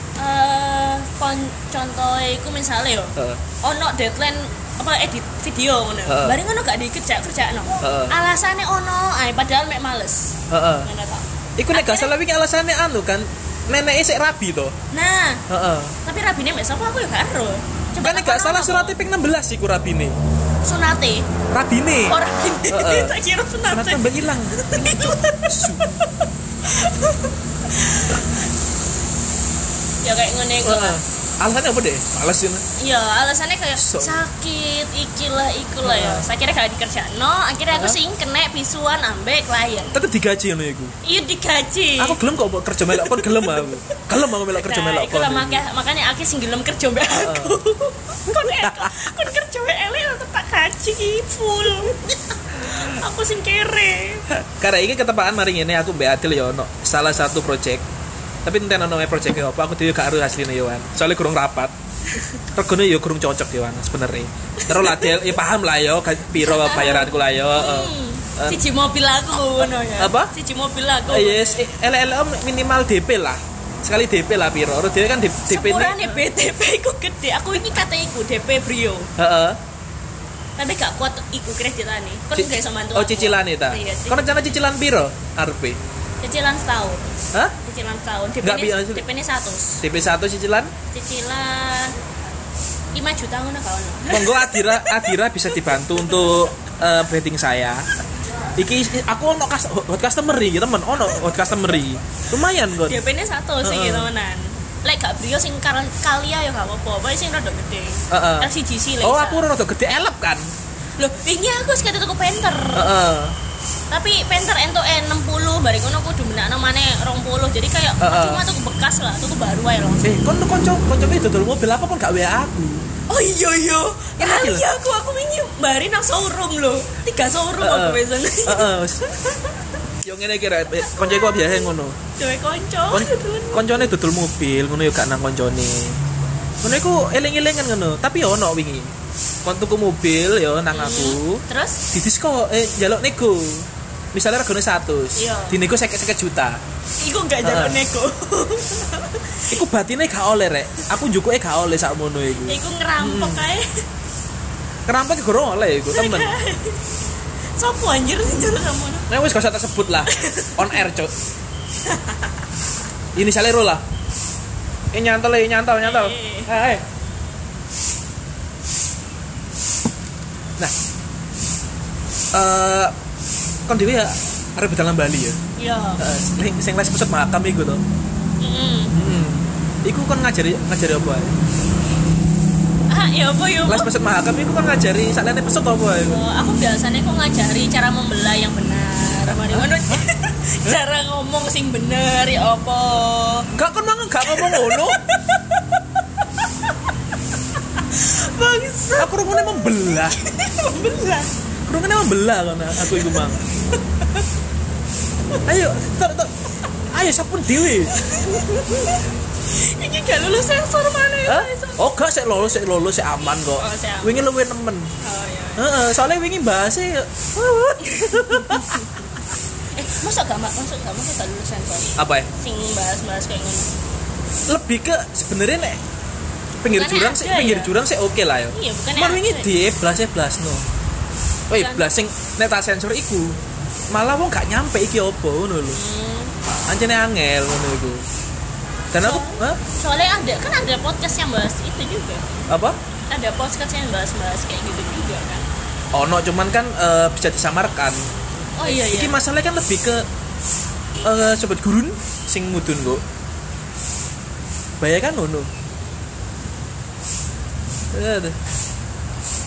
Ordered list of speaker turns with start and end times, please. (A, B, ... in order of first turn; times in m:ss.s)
0:00.2-0:12.1 A
0:03.2-0:03.4 B
0:06.1-0:06.4 B
0:07.8-0:08.1 B
0:10.5-0:10.9 B
0:11.6-0:14.7 B
0:14.9-0:15.4 A
0:15.5-0:16.0 B
0:16.0-0:19.0 A
0:18.0-0:20.2 B
0:20.6-0:21.3 A
0:21.5-0:23.2 B
0:22.0-0:25.6 A
0:23.7-0:26.0 B
0:26.6-0:28.3 A
0:30.0-0:31.0 A
0:30.6-0:32.6 B
0:32.8-0:40.0 A
0:33.8-0:34.2 B
0:35.8-0:36.3 B
0:37.7-0:38.0 B
0:39.9-0:40.9 B
0:41.0-0:42.2 A
0:42.0-0:45.6 B
0:43.0-0:54.3 A
0:47.1-0:47.6 B
0:48.3-0:48.9 B
0:54.6-0:57.8 B
0:58.4-1:01.7 B
1:02.5-1:08.6 B
1:04.6-1:05.4 A
1:06.4-1:11.7 A
1:09.6-1:10.3 B
1:11.1-1:16.2 B
1:15.5-1:19.1 A
1:19.2-1:19.6 B
1:20.6-1:24.5 A
1:22.3-1:25.8 B
1:26.2-1:29.8 A
1:28.4-1:29.0 B
1:29.8-1:30.7 B
1:30.9-1:32.0 A
1:32.9-1:35.1 A
1:34.1-1:37.9 B
1:38.6-1:43.0 B
1:42.7-1:49.4 A
1:43.6-1:44.1 B
1:48.1-1:50.5 B
1:51.0-1:52.9 A
1:52.7-1:53.4 B
1:53.9-2:00.1 A
1:58.0-1:58.4 B
2:00.0-2:02.8 B
2:03.1-2:08.7 A
2:04.2-2:04.6 B
2:07.6-2:09.1 B
2:10.0-2:12.0 B
2:10.7-2:13.9 A
2:12.9-2:16.0 B
2:16.6-2:18.9 B
2:19.4-2:26.6 B
2:20.7-2:21.8 A
2:25.2-2:25.6 A
2:27.0-2:29.6 A
2:27.4-2:27.8 B
2:29.5-2:33.5 B
2:32.4-2:33.8 A
2:34.8-2:36.3 B
2:35.9-2:36.8 A
2:37.6-2:39.1 A
2:39.1-2:41.1 B
2:40.1-2:40.8 A
2:41.9-2:42.3 A
2:43.1-2:43.8 B
2:44.9-2:46.8 B
2:45.8-2:46.5 A
2:52.3-2:52.9 B
2:53.7-2:55.4 B
2:55.6-2:56.0 A
2:56.0-2:57.8 B
2:58.4-2:58.9 A
2:58.9-3:01.3 B
3:02.9-3:03.9 A
3:03.6-3:06.2 B
3:06.0-3:13.4 A
3:09.5-3:10.0 B
3:13.5-3:15.0 B
3:14.2-3:15.8 A
3:17.7-3:21.3 A
3:19.0-3:20.2 B
3:21.7-3:23.4 B
3:22.8-3:24.2 A
3:25.4-3:26.3 B
3:26.9-3:27.9 B
3:27.9-3:31.8 A
3:31.2-3:34.9 B
3:33.4-3:34.3 A
3:35.0-3:35.9 A
3:35.6-3:38.8 B
3:37.8-3:39.0 A
3:39.7-3:43.7 A
3:42.0-3:42.3 B
3:44.5-3:45.8 B
3:46.6-3:50.6 B
3:46.7-3:47.7 A
3:48.5-3:49.5 A
3:51.5-3:53.4 B
3:51.5-3:51.9 A
3:53.9-3:55.8 B
3:55.7-3:56.3 A
3:56.7-3:58.1 B
3:58.9-3:59.6 B
3:59.0-4:02.5 A
4:02.5-4:02.8 B
4:03.1-4:05.5 A
4:05.9-4:08.1 B
4:08.6-4:09.2 A
4:08.6-4:10.0 B
4:11.0-4:13.0 B
4:14.8-4:15.5 B
4:17.9-4:18.4 B